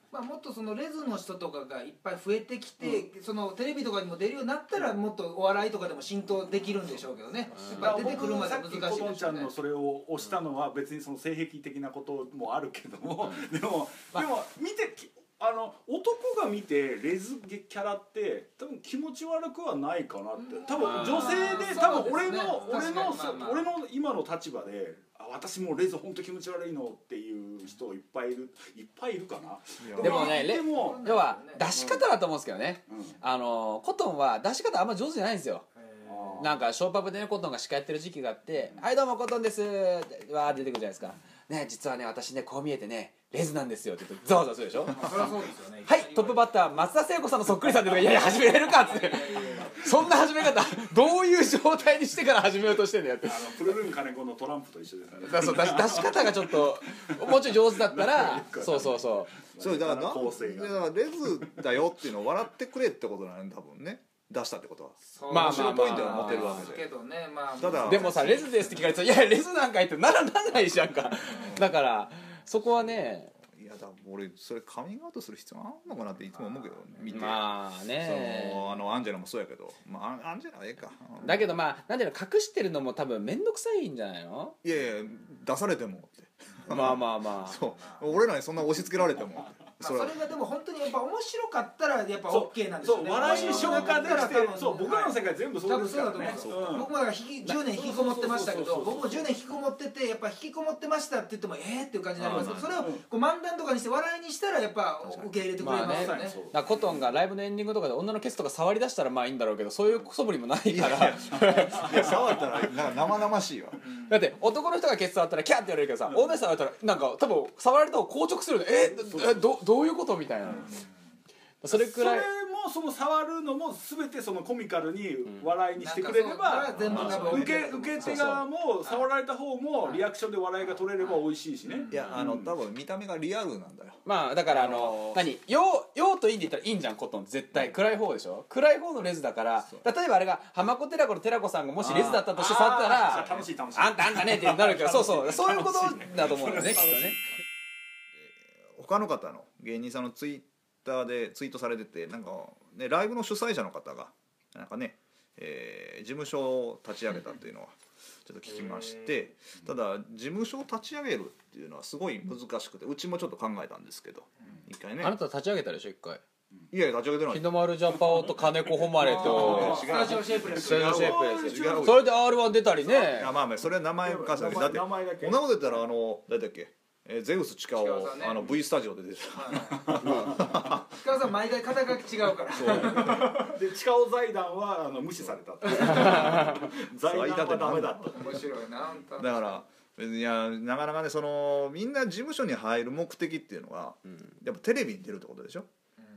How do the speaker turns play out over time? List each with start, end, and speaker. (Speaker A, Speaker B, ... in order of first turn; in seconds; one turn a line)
Speaker A: 0.1-9.5
Speaker B: 7.5-8.2
Speaker C: 7.7-31.0
Speaker A: 20.6-23.7
Speaker B: 20.7-21.8
Speaker B: 22.4-23.6
Speaker D: 29.8-30.3
Speaker B: 30.0-35.6
Speaker A: 30.0-31.7
Speaker C: 31.7-32.1
Speaker C: 32.9-33.2
Speaker A: 35.8-36.5
Speaker C: 36.0-36.6
Speaker B: 36.4-45.3
Speaker A: 44.9-46.7
Speaker B: 45.9-53.8
Speaker A: 47.8-50.2
Speaker C: 53.2-61.6
Speaker B: 55.2-59.3
Speaker D: 59.6-66.8
Speaker A: 65.1-68.8
Speaker B: 65.3-66.7
Speaker D: 67.6-68.5
Speaker B: 67.8-73.3
Speaker D: 71.3-71.7
Speaker D: 72.8-81.5
Speaker A: 76.3-77.1
Speaker B: 77.1-78.6
Speaker B: 81.2-84.5
Speaker D: 84.6-90.2
Speaker B: 86.7-87.6
Speaker A: 87.5-88.1
Speaker A: 89.8-106.4
Speaker C: 92.3-96.9
Speaker B: 93.2-94.2
Speaker D: 96.3-96.9
Speaker C: 97.7-99.3
Speaker D: 102.2-102.8
Speaker B: 102.3-102.5
Speaker C: 102.5-103.0
Speaker D: 105.0-105.3
Speaker C: 105.6-106.9
Speaker B: 105.6-112.4
Speaker D: 110.7-113.8
Speaker C: 111.8-112.3
Speaker A: 113.8-114.2
Speaker B: 114.1-120.7
Speaker C: 116.1-116.3
Speaker C: 118.9-119.4
Speaker A: 120.6-120.8
Speaker B: 121.6-122.3
Speaker C: 121.7-132.5
Speaker A: 125.8-128.3
Speaker D: 126.8-127.5
Speaker B: 126.9-128.4
Speaker A: 131.7-132.1
Speaker D: 131.9-135.2
Speaker B: 134.0-147.2
Speaker C: 141.8-147.2
Speaker D: 148.2-165.1
Speaker A: 158.6-159.1
Speaker B: 165.0-166.2
Speaker D: 166.7-167.5
Speaker B: 167.3-169.9
Speaker A: 169.0-171.1
Speaker D: 169.0-172.1
Speaker C: 169.1-172.1
Speaker B: 170.5-173.3
Speaker D: 172.8-181.0
Speaker C: 174.0-175.6
Speaker A: 177.8-178.5
Speaker A: 179.3-183.5
Speaker C: 179.9-180.3
Speaker B: 180.0-180.4
Speaker D: 182.5-183.4
Speaker C: 182.7-188.4
Speaker D: 185.7-188.4
Speaker B: 185.8-186.5
Speaker A: 188.2-189.6
Speaker D: 189.2-195.7